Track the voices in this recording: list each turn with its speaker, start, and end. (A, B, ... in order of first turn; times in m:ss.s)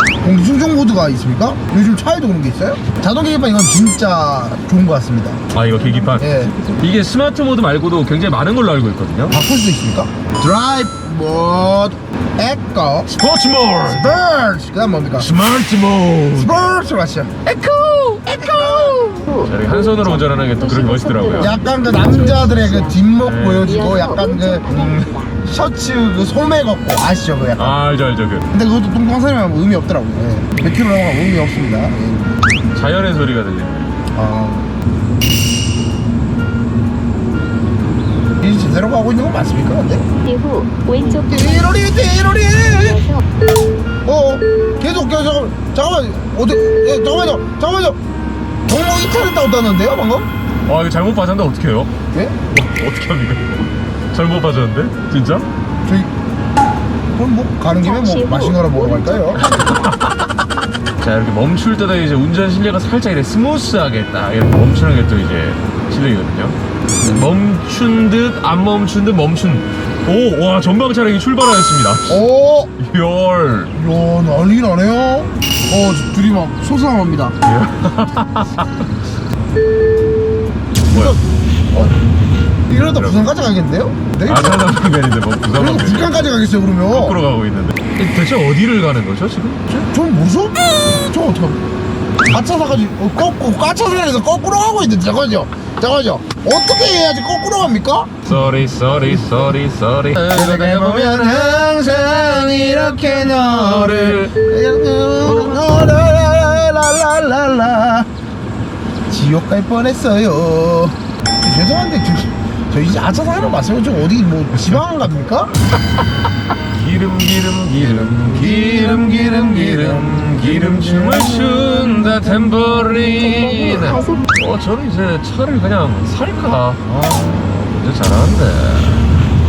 0:00.2-0:05.4 A
0:05.5-0:09.4 B
0:06.0-0:06.7 A
0:09.3-0:13.1 A
0:13.1-0:14.2 B
0:13.8-0:15.3 A
0:15.2-0:16.7 B
0:16.3-0:17.4 A
0:17.5-0:23.0 C
0:17.6-0:18.3 B
0:18.3-0:19.1 A
0:19.3-0:21.6 B
0:21.4-0:24.7 A
0:23.1-0:23.8 B
0:23.6-0:25.4 C
0:24.7-0:25.1 B
0:25.4-0:27.8 A
0:27.6-0:28.5 B
0:28.5-0:32.4 A
0:32.7-0:34.0 B
0:34.1-0:34.7 A
0:38.4-0:40.0 A
0:40.2-0:41.6 C
0:41.1-0:43.1 A
0:42.8-0:43.2 C
0:44.0-0:48.0 A
0:48.7-0:50.3 A
0:50.6-0:51.9 B
0:52.1-0:52.4 A
0:52.5-0:53.5 B
0:54.1-0:55.4 B
0:55.8-0:56.1 A
0:57.1-0:59.4 A
0:57.8-0:59.8 C
0:59.4-1:00.3 B
1:01.0-1:13.7 B
1:07.0-1:07.2 A
1:12.1-1:12.7 A
1:13.7-1:17.4 A
1:17.4-1:18.8 B
1:20.9-1:21.2 B
1:20.9-1:21.2 A
1:22.7-1:24.8 A
1:22.8-1:23.3 B
1:24.2-1:26.2 B
1:25.6-1:27.2 A
1:26.9-1:29.6 B
1:29.7-1:31.6 A
1:32.2-1:38.2 A
1:38.2-1:44.3 B
1:39.1-1:39.4 A
1:40.3-1:48.1 A
1:45.2-1:45.7 B
1:49.1-1:55.5 A
1:56.7-2:09.1 B
1:57.8-2:01.1 A
2:03.2-2:04.3 C
2:06.9-2:07.5 A